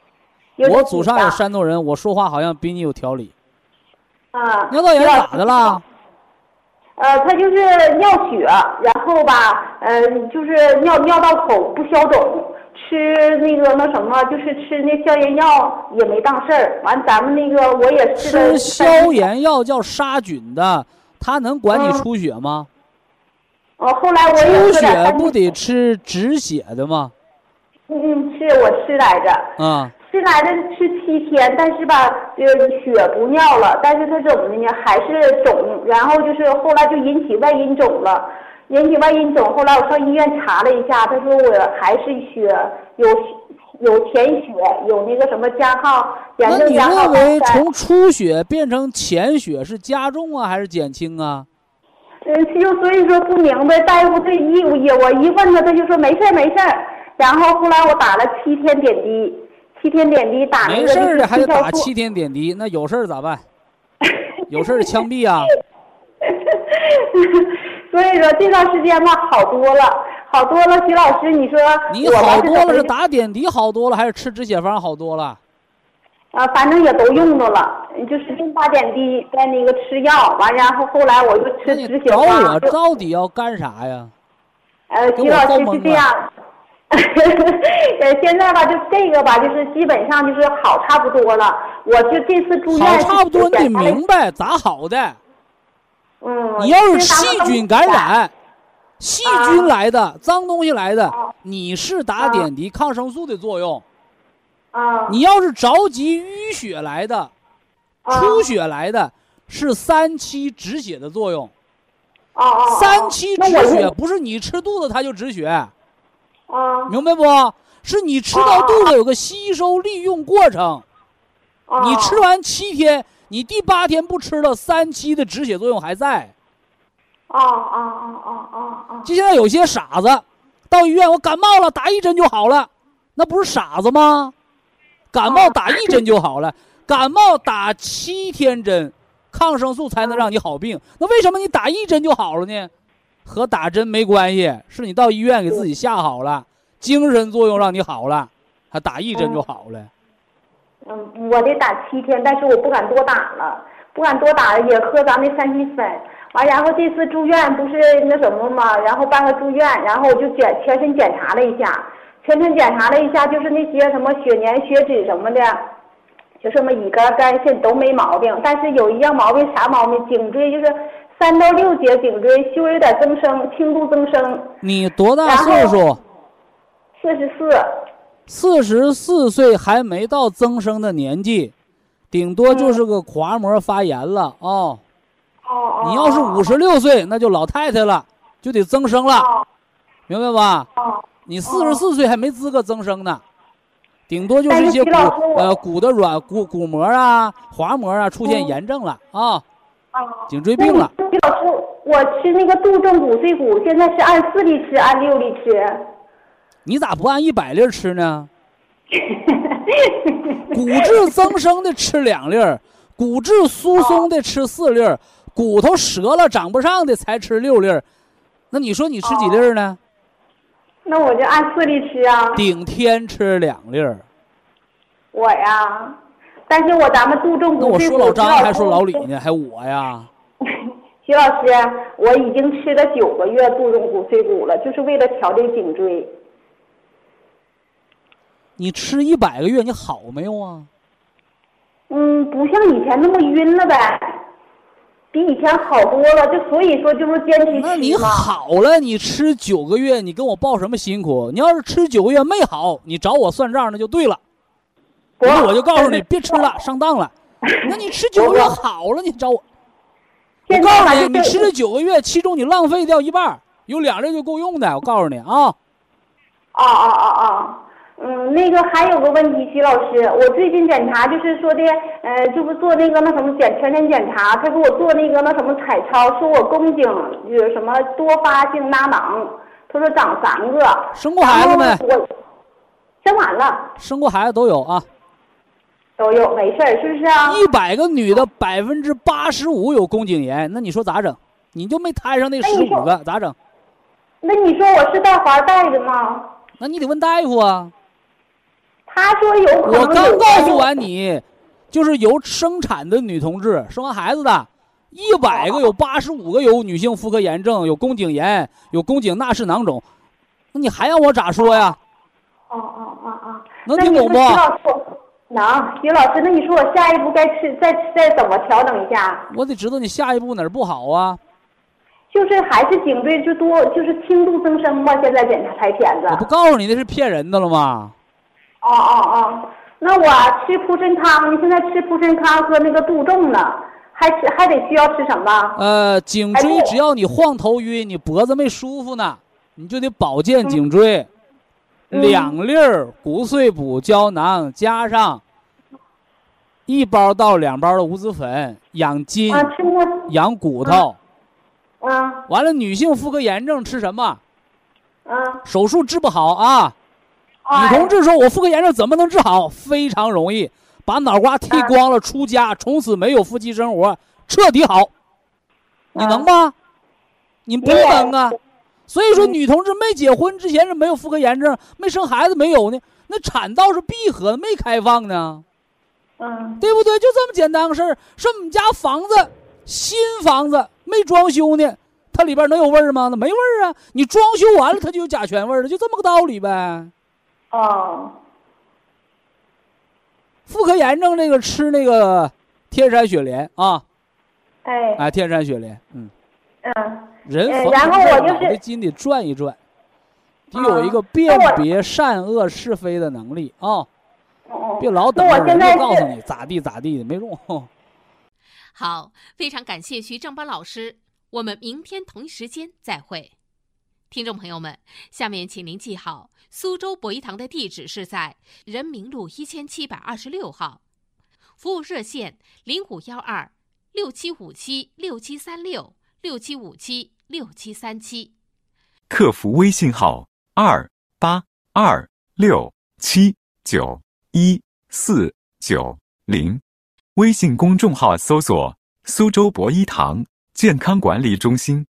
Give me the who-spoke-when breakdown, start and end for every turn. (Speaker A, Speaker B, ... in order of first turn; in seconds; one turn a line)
Speaker A: 0.6-1.4
Speaker B: 0.6-3.3
Speaker A: 4.3-5.8
Speaker B: 4.7-5.8
Speaker A: 7.0-19.3
Speaker B: 18.2-22.7
Speaker A: 21.7-22.0
Speaker A: 23.8-25.4
Speaker B: 24.4-27.1
Speaker A: 27.9-29.5
Speaker B: 29.6-29.9
Speaker A: 30.0-47.6
Speaker B: 46.4-51.5
Speaker A: 52.2-61.9
Speaker B: 60.6-63.4
Speaker B: 64.5-65.5
Speaker A: 66.3-72.9
Speaker B: 71.9-75.4
Speaker A: 76.3-82.7
Speaker B: 81.7-84.1
Speaker A: 84.9-86.3
Speaker B: 85.2-86.0
Speaker A: 86.9-94.0
Speaker B: 92.7-95.2
Speaker A: 96.2-98.1
Speaker B: 96.6-98.3
Speaker B: 99.0-103.8
Speaker A: 99.2-99.7
Speaker A: 102.2-102.5
Speaker A: 104.7-105.2
Speaker B: 105.1-107.3
Speaker A: 108.0-108.5
Speaker B: 108.1-111.5
Speaker A: 112.3-113.9
Speaker B: 112.7-115.7
Speaker A: 116.5-116.9
Speaker B: 116.9-120.8
Speaker A: 118.3-118.9
Speaker A: 121.7-122.2
Speaker B: 121.8-126.3
Speaker A: 127.3-129.1
Speaker B: 129.0-134.3
Speaker B: 135.1-142.7
Speaker A: 135.3-135.9
Speaker B: 143.2-149.9
Speaker A: 149.2-149.4
Speaker A: 150.8-165.6
Speaker A: 166.4-174.6
Speaker B: 174.6-176.0
Speaker A: 175.2-175.8
Speaker A: 177.0-177.7
Speaker B: 178.3-181.5
Speaker B: 182.1-184.8
Speaker A: 182.5-182.8
Speaker A: 185.4-186.5
Speaker B: 185.8-189.3
Speaker A: 189.2-189.4
Speaker B: 190.1-190.7
Speaker A: 190.8-191.8
Speaker B: 191.2-193.2
Speaker B: 194.1-199.4
Speaker A: 194.5-195.5
Speaker A: 198.2-198.6
Speaker A: 199.9-205.8
Speaker B: 200.3-200.9
Speaker B: 206.7-208.3
Speaker A: 208.9-210.9
Speaker B: 210.5-217.8
Speaker A: 213.8-214.1
Speaker B: 218.5-219.8
Speaker A: 219.1-219.4
Speaker A: 220.8-222.4
Speaker B: 222.3-224.0
Speaker A: 225.1-226.0
Speaker A: 226.5-229.0
Speaker B: 227.6-230.1
Speaker A: 231.0-236.1
Speaker B: 238.6-240.7
Speaker A: 241.9-244.1
Speaker A: 245.1-248.3
Speaker B: 247.5-254.2
Speaker A: 255.2-256.4
Speaker B: 255.2-257.1
Speaker A: 257.5-258.6
Speaker B: 257.6-259.4
Speaker A: 260.5-261.5
Speaker B: 260.5-265.5
Speaker A: 266.5-282.1
Speaker B: 280.9-281.8
Speaker A: 283.0-283.7
Speaker B: 283.8-284.9
Speaker A: 286.0-287.4
Speaker B: 287.2-293.4
Speaker A: 292.4-292.9
Speaker A: 294.2-296.3
Speaker B: 296.6-297.7
Speaker A: 298.9-300.6
Speaker B: 299.6-309.8
Speaker B: 310.5-311.8
Speaker A: 312.5-319.3
Speaker B: 313.6-314.4
Speaker B: 319.3-321.2
Speaker A: 322.1-326.2
Speaker B: 326.1-327.9
Speaker A: 328.6-335.6
Speaker B: 335.6-341.1
Speaker A: 336.3-336.7
Speaker B: 341.9-345.2
Speaker A: 341.9-342.4
Speaker B: 346.7-349.5
Speaker A: 349.3-350.1
Speaker B: 350.1-351.0
Speaker A: 351.8-352.2
Speaker B: 352.3-354.2
Speaker A: 355.1-355.4
Speaker B: 355.4-356.7
Speaker A: 357.5-357.9
Speaker B: 357.5-364.9
Speaker A: 365.9-366.3
Speaker B: 365.9-366.5
Speaker B: 367.4-368.4
Speaker A: 367.6-368.1
Speaker B: 368.9-375.4
Speaker A: 376.2-376.6
Speaker B: 376.6-386.9
Speaker A: 387.5-388.1
Speaker B: 390.4-393.8
Speaker A: 394.6-395.0
Speaker B: 395.0-396.1
Speaker A: 396.6-398.6
Speaker B: 397.2-399.6
Speaker B: 400.5-403.9
Speaker A: 400.5-401.6
Speaker A: 404.5-406.1
Speaker B: 404.8-407.7
Speaker C: 408.7-413.3
Speaker C: 414.1-420.8
Speaker C: 421.6-428.3
Speaker D: 429.1-436.6
Speaker D: 437.1-441.9